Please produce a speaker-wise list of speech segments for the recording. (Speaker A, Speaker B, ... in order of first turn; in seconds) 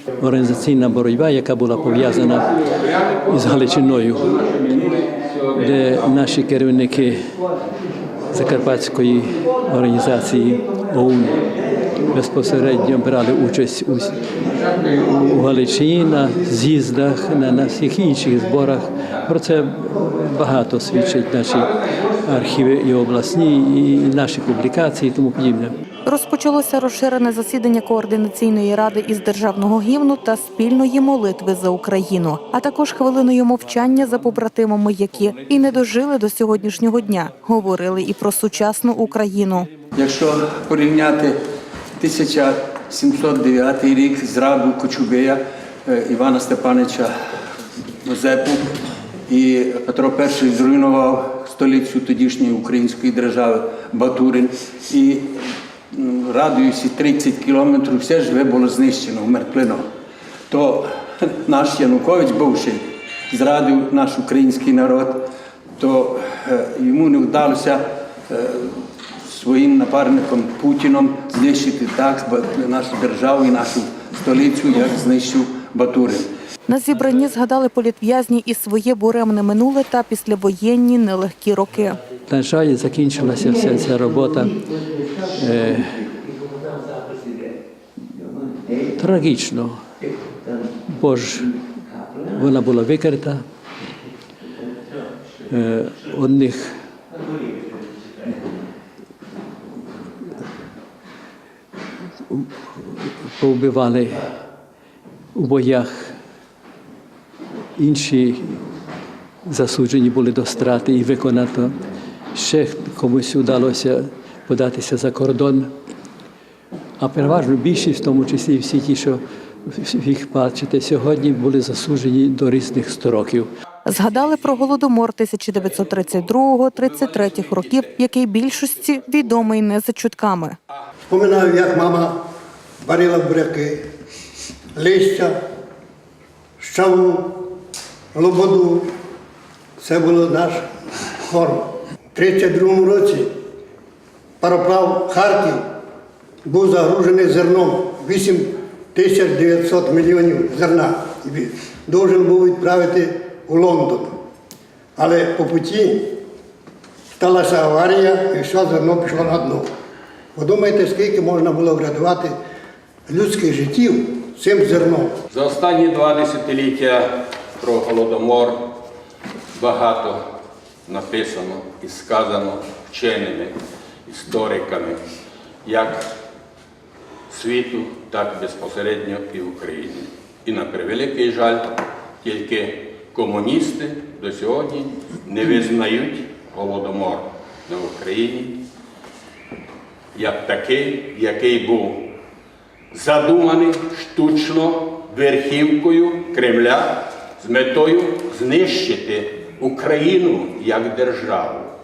Speaker A: 0.2-4.9, 5.5-7.2, 8.3-11.5, 12.1-25.8, 82.2-86.2, 89.0-89.8, 90.8-91.6, 92.3-93.4, 95.5-96.8, 102.3-104.3, 105.3-106.1, 107.8-108.6, 109.5-111.8, 112.3-115.7, 117.0-123.5
Speaker B: 4.7-5.3, 165.3-168.7, 169.6-170.2, 170.9-173.6, 174.1-175.0, 175.6-176.1, 177.3-188.6, 190.1-192.1, 192.9-201.7
Speaker C: 26.0-39.7, 76.7-82.0, 123.8-130.6
Speaker D: 39.9-41.4, 42.0-47.4, 48.0-48.8, 49.3-59.8, 60.5-65.2, 65.8-76.3
Speaker E: 131.1-132.2, 132.8-133.8, 134.7-135.4, 136.6-137.5, 138.1-138.9, 139.8-140.7, 141.2-143.3, 144.4-145.6, 146.4-154.2, 154.9-156.2, 157.2-159.7, 160.3-162.3, 163.1-165.2